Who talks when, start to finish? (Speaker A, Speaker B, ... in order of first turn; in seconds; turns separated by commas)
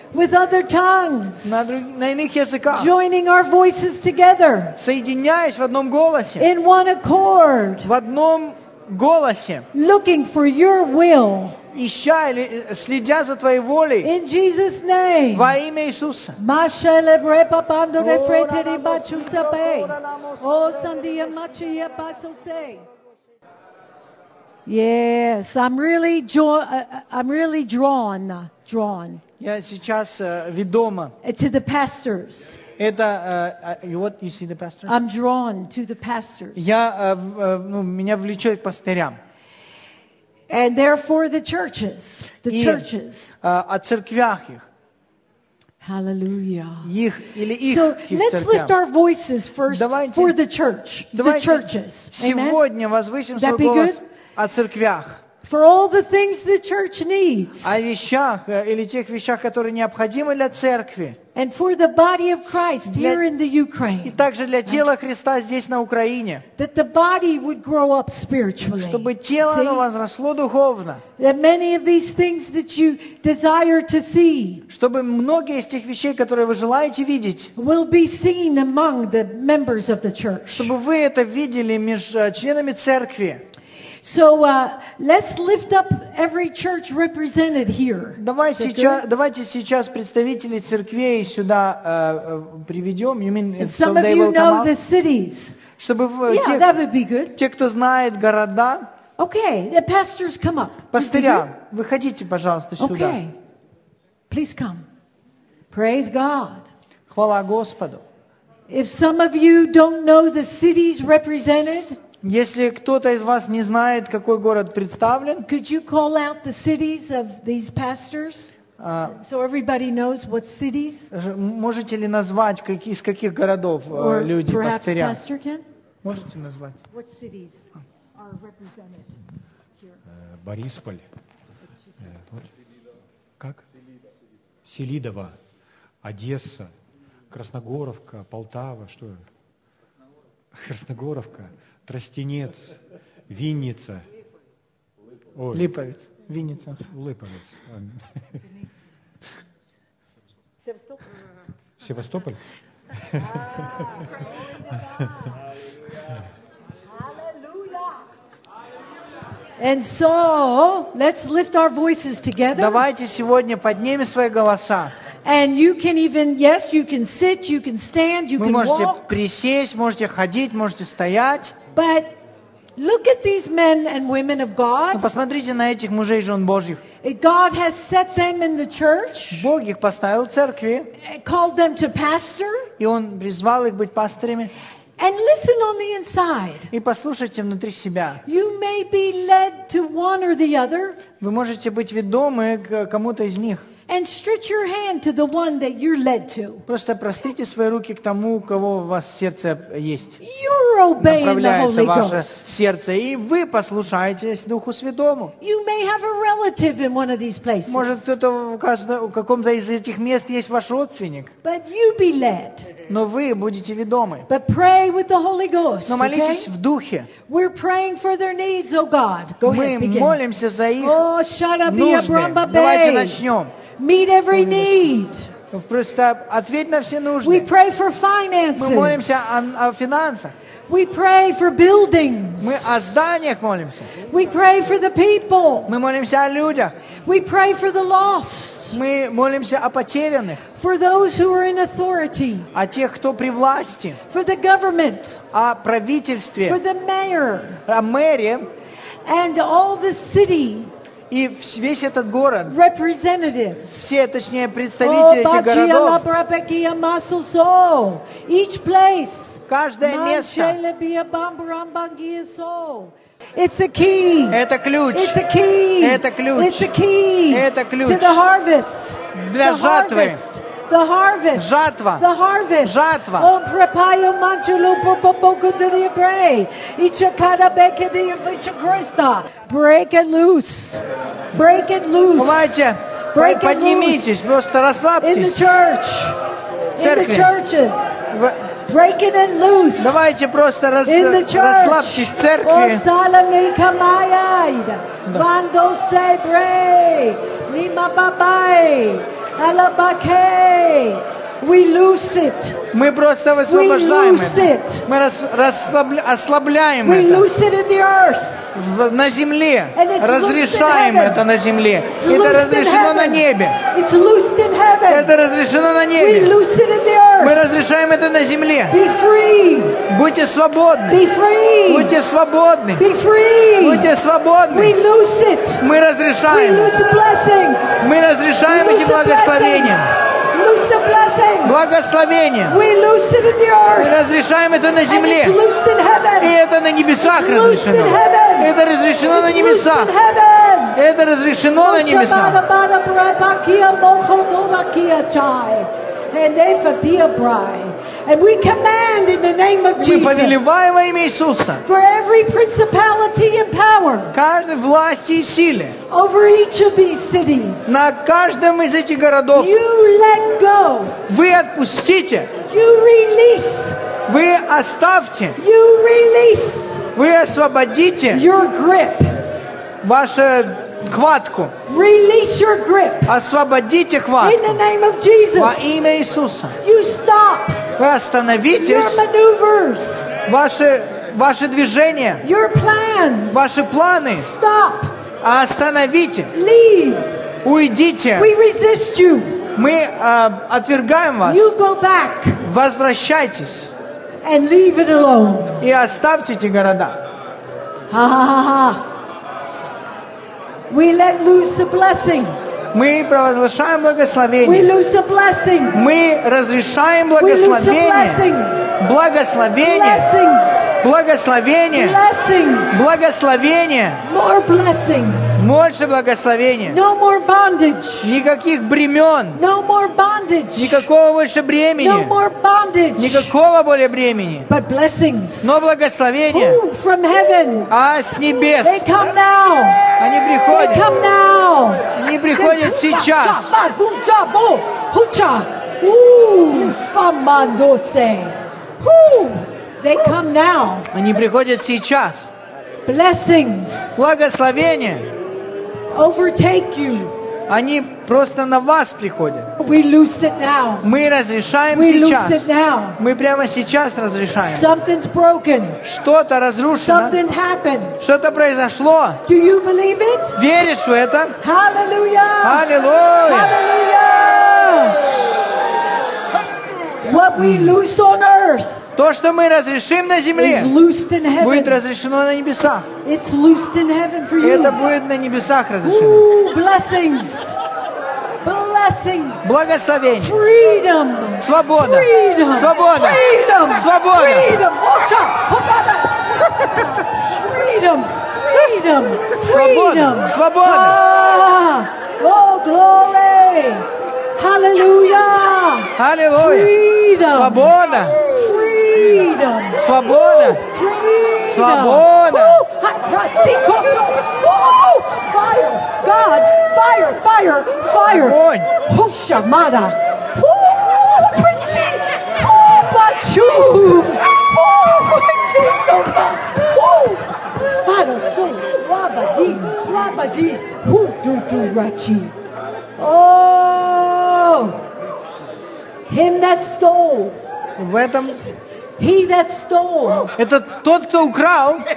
Speaker A: 0.1-1.8, Speaker B: 1.4-2.9, Speaker A: 2.7-4.8, Speaker B: 4.8-6.5, Speaker A: 6.4-7.9, Speaker B: 7.8-9.7, Speaker A: 9.7-11.6, Speaker B: 11.7-14.1, Speaker A: 14.0-15.6, Speaker B: 15.3-16.4, Speaker A: 16.4-22.9, Speaker B: 18.0-21.5, Speaker A: 24.7-29.2, Speaker B: 29.4-31.1, Speaker A: 31.2-32.6, Speaker B: 32.8-35.0, Speaker A: 34.9-36.6, Speaker B: 36.5-39.2, Speaker A: 40.5-43.3, Speaker B: 42.5-42.9, Speaker B: 43.4-44.6, Speaker A: 45.8-46.9, Speaker B: 46.8-48.7, Speaker A: 47.6-52.6, Speaker B: 49.7-50.4, Speaker B: 51.1-55.2, Speaker A: 53.4-54.0, Speaker A: 55.4-57.8, Speaker B: 57.6-61.2, Speaker A: 61.4-64.8, Speaker B: 62.9-63.2, Speaker B: 64.0-66.5, Speaker A: 66.6-69.8, Speaker B: 68.7-71.0, Speaker A: 71.2-74.7, Speaker B: 74.7-77.5, Speaker A: 77.6-80.7, Speaker B: 80.5-83.4, Speaker A: 84.0-89.0, Speaker B: 88.2-94.7, Speaker A: 93.6-95.6, Speaker B: 95.8-96.8, Speaker A: 96.3-97.3, Speaker B: 97.3-98.9, Speaker A: 99.2-101.5, Speaker B: 100.9-103.2, Speaker A: 102.8-103.3, Speaker A: 104.3-104.9, Speaker A: 105.7-106.7, Speaker B: 107.1-108.0, Speaker A: 108.7-112.0, Speaker B: 112.2-115.5, Speaker A: 115.5-121.1, Speaker B: 118.8-119.2, Speaker B: 121.1-125.2, Speaker A: 123.9-125.7, Speaker B: 126.0-126.8, Speaker A: 126.9-129.1, Speaker C: 130.1-131.1, Speaker C: 132.0-132.5, Speaker C: 133.4-133.7, Speaker C: 134.6-135.4, Speaker C: 136.0-136.7, Speaker C: 137.3-139.2, Speaker C: 140.5-144.1, Speaker C: 145.3-145.7, Speaker B: 145.5-146.8, Speaker C: 146.8-148.2, Speaker C: 151.8-152.4, Speaker C: 153.1-154.0, Speaker A: 153.3-154.0, Speaker A: 154.8-155.2, Speaker A: 156.9-158.0, Speaker A: 159.6-162.8, Speaker B: 162.6-164.9, Speaker A: 165.2-169.0, Speaker B: 168.4-171.5, Speaker A: 171.7-172.1, Speaker A: 172.8-175.1, Speaker B: 174.9-176.8, Speaker A: 177.0-179.5, Speaker B: 179.3-180.9, Speaker A: 181.0-182.7, Speaker B: 182.8-184.5, Speaker A: 185.0-186.7, Speaker B: 186.7-188.2, Speaker A: 188.3-191.0, Speaker B: 191.2-193.7, Speaker A: 193.9-196.6, Speaker B: 196.7-200.2, Speaker A: 200.2-202.5, Speaker B: 201.0-205.3, Speaker A: 205.4-208.1, Speaker B: 207.7-211.3, Speaker A: 211.4-212.7, Speaker B: 212.9-214.3, Speaker A: 214.3-216.5, Speaker B: 215.9-217.1, Speaker A: 217.3-220.2, Speaker B: 219.4-221.0, Speaker A: 220.8-225.3, Speaker B: 221.7-223.5, Speaker B: 225.5-227.5, Speaker A: 227.2-229.3, Speaker B: 228.6-230.3, Speaker A: 230.7-232.9, Speaker B: 232.4-233.9, Speaker A: 234.0-235.7, Speaker B: 235.7-236.8, Speaker A: 237.0-238.8, Speaker B: 238.7-240.5, Speaker A: 240.6-242.5, Speaker B: 242.5-244.0, Speaker A: 244.1-245.2, Speaker B: 245.3-246.6, Speaker A: 246.4-247.6, Speaker B: 247.7-248.5, Speaker A: 249.1-250.7, Speaker B: 251.1-252.6, Speaker A: 252.5-253.9, Speaker B: 253.8-256.0, Speaker A: 254.8-264.4, Speaker B: 259.5-260.6, Speaker B: 264.3-265.2, Speaker A: 264.9-284.4, Speaker B: 265.8-266.7, Speaker B: 267.3-268.2, Speaker B: 269.1-270.2, Speaker B: 271.3-272.1, Speaker B: 272.6-273.3, Speaker B: 282.2-285.4, Speaker A: 285.0-286.2, Speaker A: 286.8-288.0, Speaker B: 286.8-287.3, Speaker B: 288.1-288.5, Speaker A: 288.7-290.2, Speaker B: 289.8-292.8, Speaker A: 290.9-302.6, Speaker B: 302.7-307.2, Speaker A: 303.5-304.9, Speaker A: 306.8-308.5, Speaker B: 308.6-313.6, Speaker A: 309.8-311.2, Speaker A: 311.9-315.1, Speaker B: 314.9-316.4, Speaker A: 316.0-317.5, Speaker B: 317.2-318.8, Speaker A: 318.7-319.8, Speaker B: 319.9-321.0, Speaker A: 320.9-322.0, Speaker B: 321.7-322.8, Speaker A: 322.8-323.9, Speaker B: 323.6-324.8, Speaker A: 324.5-325.6, Speaker B: 325.6-326.8, Speaker A: 326.3-327.9, Speaker B: 327.8-329.9, Speaker A: 328.5-331.6, Speaker B: 331.4-332.6, Speaker A: 332.5-334.0, Speaker B: 333.8-335.4, Speaker A: 334.9-336.4, Speaker B: 336.2-339.9, Speaker A: 337.0-338.5, Speaker A: 339.0-340.8, Speaker B: 340.8-342.4, Speaker A: 341.6-350.4, Speaker B: 349.8-351.6, Speaker A: 351.6-354.2, Speaker B: 354.1-355.8, Speaker A: 355.9-357.8, Speaker B: 357.7-359.6, Speaker A: 359.3-361.0, Speaker B: 361.1-362.3, Speaker A: 362.5-363.8, Speaker B: 364.1-365.4, Speaker A: 365.4-366.9, Speaker B: 366.9-368.2, Speaker A: 368.1-369.3, Speaker B: 369.8-371.5, Speaker A: 371.7-373.1, Speaker B: 373.1-374.6, Speaker A: 374.2-375.7, Speaker B: 375.4-376.6, Speaker A: 376.6-377.6, Speaker B: 377.8-379.0, Speaker A: 378.6-380.1, Speaker B: 380.3-382.2, Speaker A: 382.2-383.5, Speaker B: 383.3-384.3, Speaker A: 384.2-385.0, Speaker B: 385.2-386.3, Speaker A: 386.3-387.2, Speaker B: 387.4-388.3, Speaker A: 388.2-389.4, Speaker B: 389.6-391.5, Speaker A: 391.2-392.4, Speaker B: 392.4-393.7, Speaker A: 394.2-395.6, Speaker B: 395.6-397.0, Speaker A: 397.9-398.9, Speaker A: 400.7-402.4, Speaker B: 402.7-404.7, Speaker A: 404.4-405.8, Speaker B: 405.7-410.1, Speaker A: 407.2-408.6, Speaker A: 409.6-410.7, Speaker B: 410.8-412.0, Speaker A: 411.7-412.8, Speaker B: 412.7-414.0, Speaker A: 414.0-415.5, Speaker B: 415.4-416.8, Speaker A: 416.7-418.2, Speaker B: 418.0-419.4, Speaker A: 419.3-420.9, Speaker B: 420.6-422.2, Speaker A: 421.8-423.3, Speaker B: 423.0-424.5, Speaker A: 424.5-425.7, Speaker B: 425.4-426.6, Speaker A: 426.3-427.7, Speaker B: 427.7-428.9, Speaker A: 428.6-429.9, Speaker B: 430.0-430.9, Speaker A: 430.5-440.9, Speaker B: 431.9-433.5, Speaker B: 440.9-442.3, Speaker A: 442.9-444.0, Speaker B: 444.0-445.1, Speaker A: 445.9-447.2, Speaker B: 447.5-449.5, Speaker A: 449.6-450.9, Speaker B: 450.8-454.7, Speaker A: 451.7-453.0, Speaker A: 454.4-455.8, Speaker B: 455.8-457.2, Speaker A: 456.8-458.0, Speaker B: 458.0-459.2, Speaker A: 459.2-460.4, Speaker B: 460.4-461.4, Speaker A: 461.4-462.6, Speaker B: 462.4-463.6, Speaker A: 463.2-465.1, Speaker A: 467.0-468.8, Speaker B: 469.0-470.7, Speaker A: 470.4-471.8, Speaker B: 471.4-472.9, Speaker A: 473.0-474.8, Speaker B: 474.4-476.3, Speaker A: 475.8-477.6, Speaker A: 478.4-479.5, Speaker B: 479.4-480.4, Speaker A: 480.2-497.7, Speaker B: 481.4-484.5, Speaker B: 489.4-491.0, Speaker B: 496.0-496.7, Speaker B: 497.3-498.2, Speaker A: 498.2-522.4, Speaker B: 499.8-500.6, Speaker B: 501.5-502.6, Speaker B: 508.1-508.7, Speaker A: 523.0-524.8, Speaker A: 526.1-527.4, Speaker B: 527.8-528.4, Speaker A: 529.0-530.3, Speaker B: 530.4-531.9